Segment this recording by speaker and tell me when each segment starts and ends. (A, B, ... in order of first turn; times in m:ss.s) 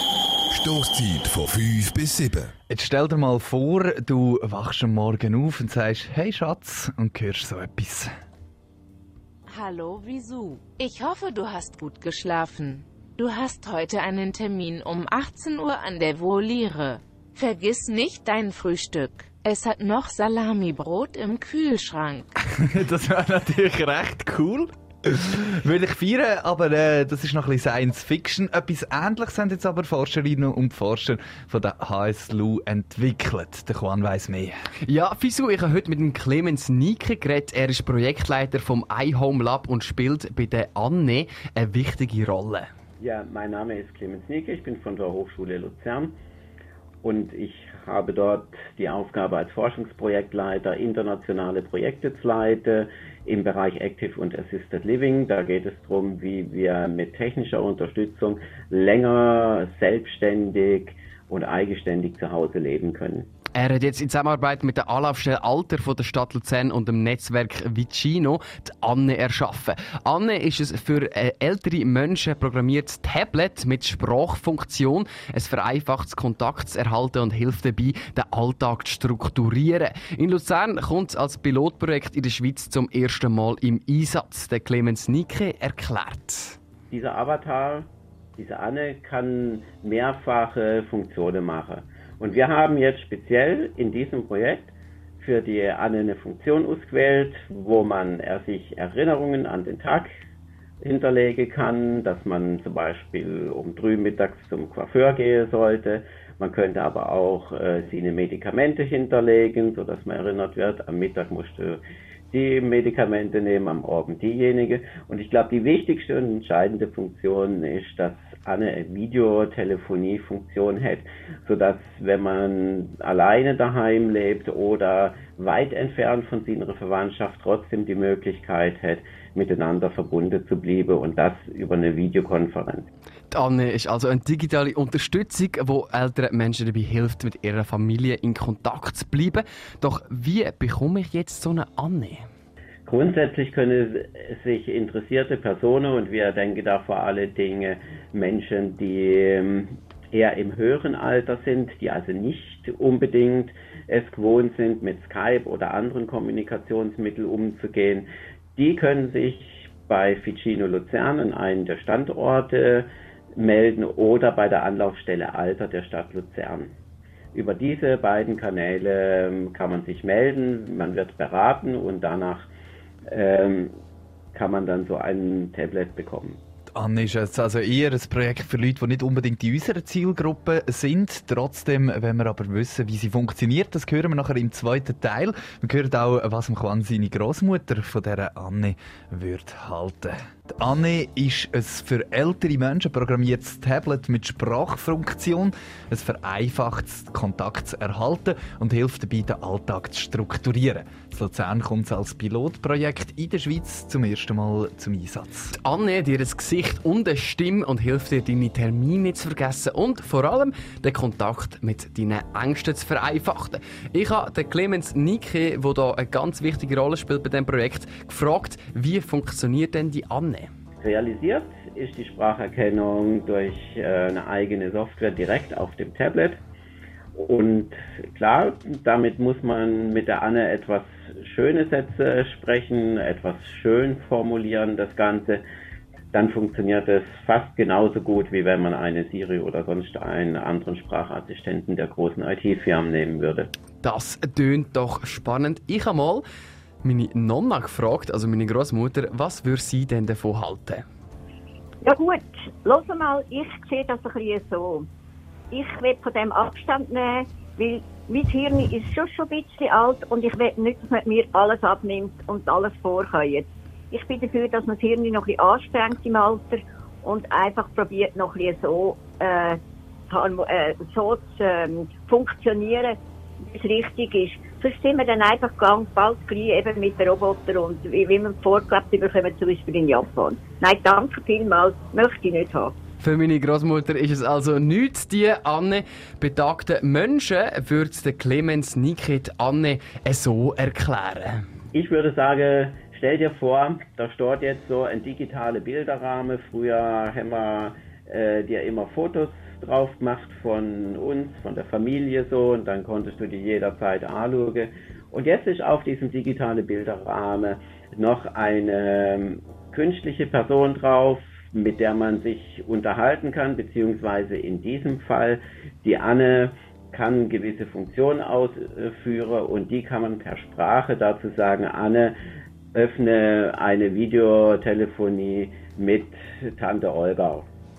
0:00.5-0:02.5 A
0:02.7-0:08.1 B
0:09.5-0:22.3 C
0:22.6-0:34.6 B
0:34.9-0:42.7 D
0:43.0-0:46.2 E
0:47.0-1:03.3 E
1:03.6-1:26.6 D
1:26.9-1:40.1 E
1:40.8-2:12.9 E
2:13.3-2:22.2 D
2:22.8-2:46.8 E
2:47.3-2:52.5 E
2:53.1-2:53.7 E
2:54.3-2:56.4 E
2:56.8-3:25.5 B
3:25.5-3:40.5 D
3:40.8-3:46.4 E
3:47.1-3:55.4 E
3:56.1-4:03.5 E
4:03.8-4:06.2 D
4:06.8-4:10.8 D
4:11.8-4:14.9 F
4:15.5-4:42.8 F
4:43.0-4:51.4 D
4:51.7-5:22.2 E
5:22.7-5:27.5 E